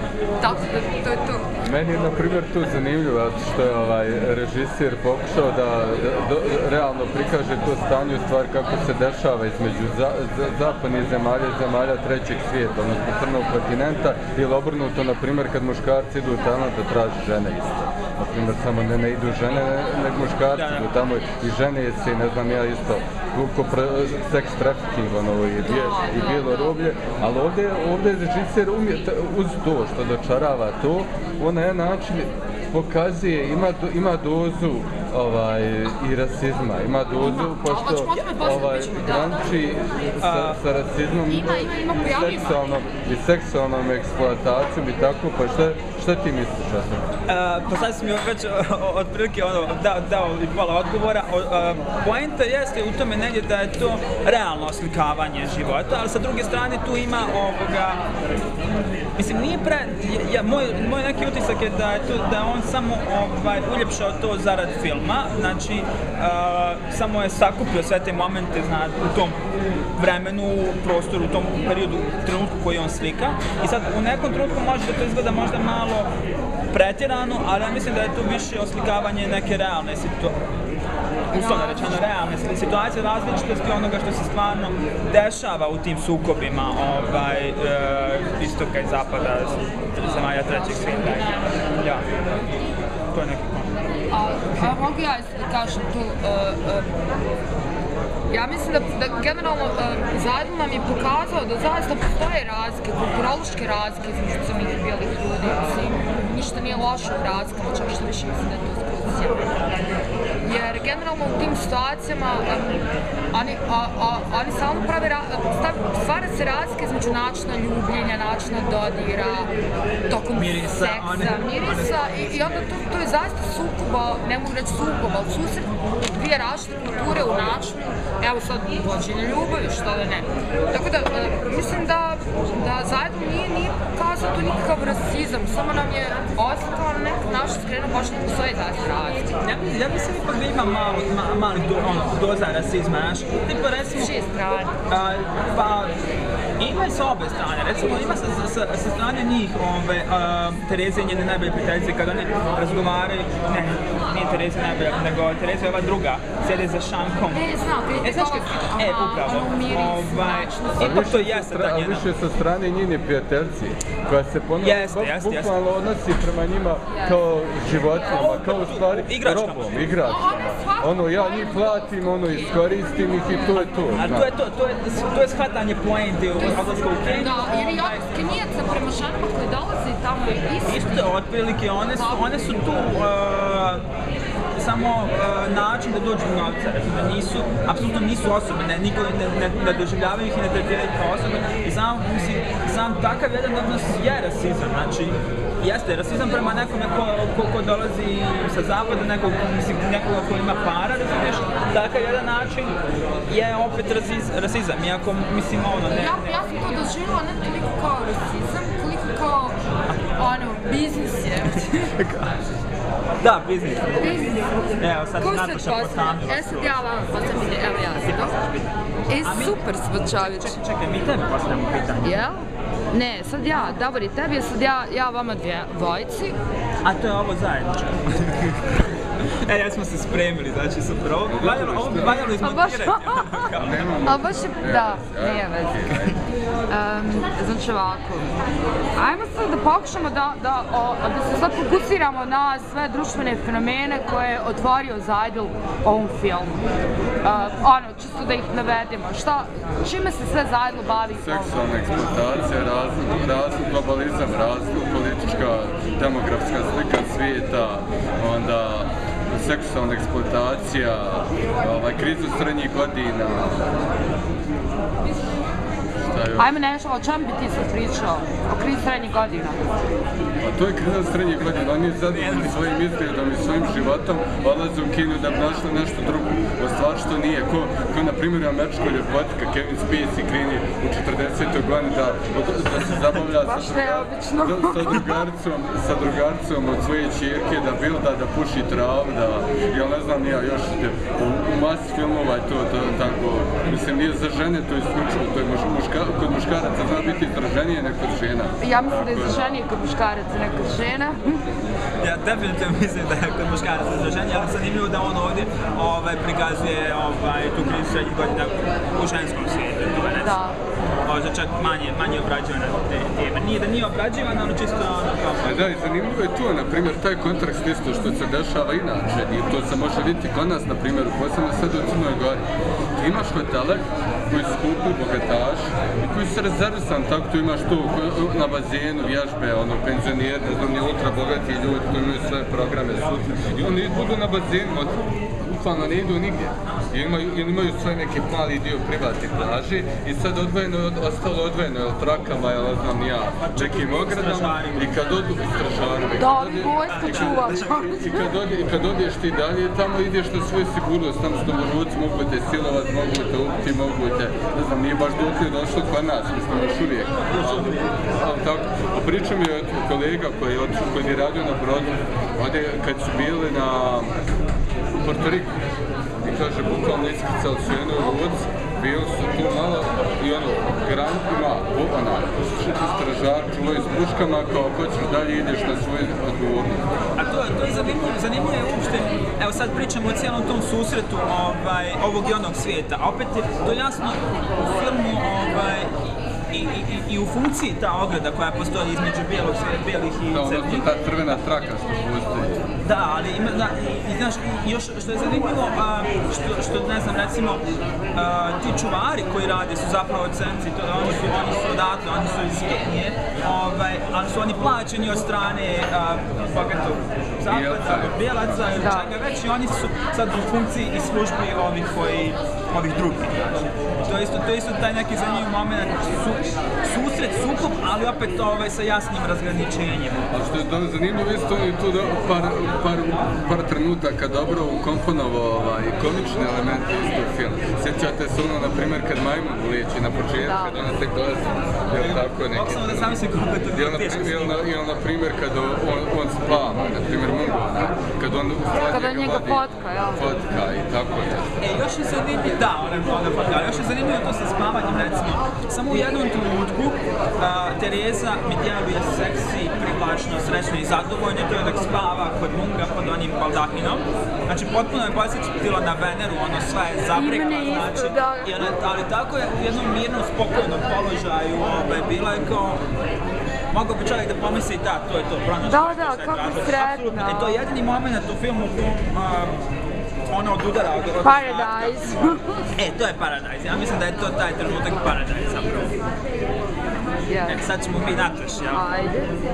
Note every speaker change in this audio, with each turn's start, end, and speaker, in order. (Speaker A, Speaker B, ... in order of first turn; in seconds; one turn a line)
Speaker A: 0.4-1.5
Speaker B: 1.6-47.1
Speaker C: 20.6-20.9
Speaker A: 25.6-26.8
Speaker A: 37.2-39.4
Speaker C: 40.2-40.6
Speaker A: 41.3-42.8
Speaker C: 47.3-58.0
Speaker C: 59.2-69.4
Speaker C: 70.0-76.1
Speaker C: 76.7-80.4
Speaker A: 81.3-82.1
Speaker C: 81.3-92.0
Speaker A: 90.5-91.5
Speaker C: 93.1-93.7
Speaker A: 94.1-96.9
Speaker A: 98.3-109.5
Speaker A: 110.4-112.8
Speaker A: 113.3-119.5
Speaker A: 120.1-139.4
Speaker C: 120.3-122.6
Speaker C: 139.4-144.1
Speaker A: 144.0-144.7
Speaker C: 144.9-145.9
Speaker C: 146.6-162.1
Speaker A: 157.3-161.0
Speaker B: 160.8-174.3
Speaker C: 164.6-165.6
Speaker A: 166.9-168.3
Speaker C: 168.0-170.0
Speaker A: 170.0-173.9
Speaker C: 173.9-178.0
Speaker A: 176.4-181.1
Speaker C: 180.7-183.8
Speaker A: 181.9-182.4
Speaker C: 184.6-202.8
Speaker C: 203.3-206.5
Speaker A: 205.9-209.6
Speaker A: 210.2-211.9
Speaker C: 211.6-212.4
Speaker C: 213.2-216.9
Speaker A: 214.0-214.5
Speaker A: 215.2-218.3
Speaker C: 217.9-218.7
Speaker A: 219.1-220.6
Speaker C: 219.2-222.2
Speaker A: 222.0-222.4
Speaker A: 222.9-226.4
Speaker C: 226.8-234.0
Speaker B: 231.3-232.3
Speaker A: 232.3-233.5
Speaker B: 233.6-236.2
Speaker A: 234.0-236.0
Speaker A: 236.7-238.4
Speaker A: 239.0-246.6
Speaker A: 247.2-251.6
Speaker B: 251.1-263.7
Speaker B: 266.1-266.5
Speaker A: 266.4-269.7
Speaker B: 270.4-299.6
Speaker C: 272.1-272.7
Speaker A: 283.3-285.2
Speaker A: 298.6-301.4
Speaker C: 302.0-310.5
Speaker A: 310.2-310.6
Speaker C: 311.1-315.6
Speaker B: 315.4-322.4
Speaker B: 323.0-364.1
Speaker C: 343.4-345.0
Speaker A: 346.2-348.3
Speaker C: 346.9-348.0
Speaker C: 357.2-358.0
Speaker B: 365.0-365.6
Speaker B: 366.2-376.9
Speaker C: 377.2-385.9
Speaker C: 386.5-390.9
Speaker B: 390.3-392.7
Speaker C: 392.8-397.6
Speaker C: 398.1-420.3
Speaker B: 407.5-408.9
Speaker A: 408.8-409.1
Speaker B: 420.3-433.2
Speaker A: 430.4-430.8
Speaker C: 431.9-434.7
Speaker B: 433.7-441.6
Speaker A: 438.8-440.2
Speaker C: 441.6-462.8
Speaker A: 457.1-458.7
Speaker C: 463.7-469.5
Speaker A: 465.7-467.6
Speaker C: 470.3-476.0
Speaker A: 471.2-472.6
Speaker A: 477.3-477.6
Speaker C: 477.5-478.8
Speaker A: 478.7-479.4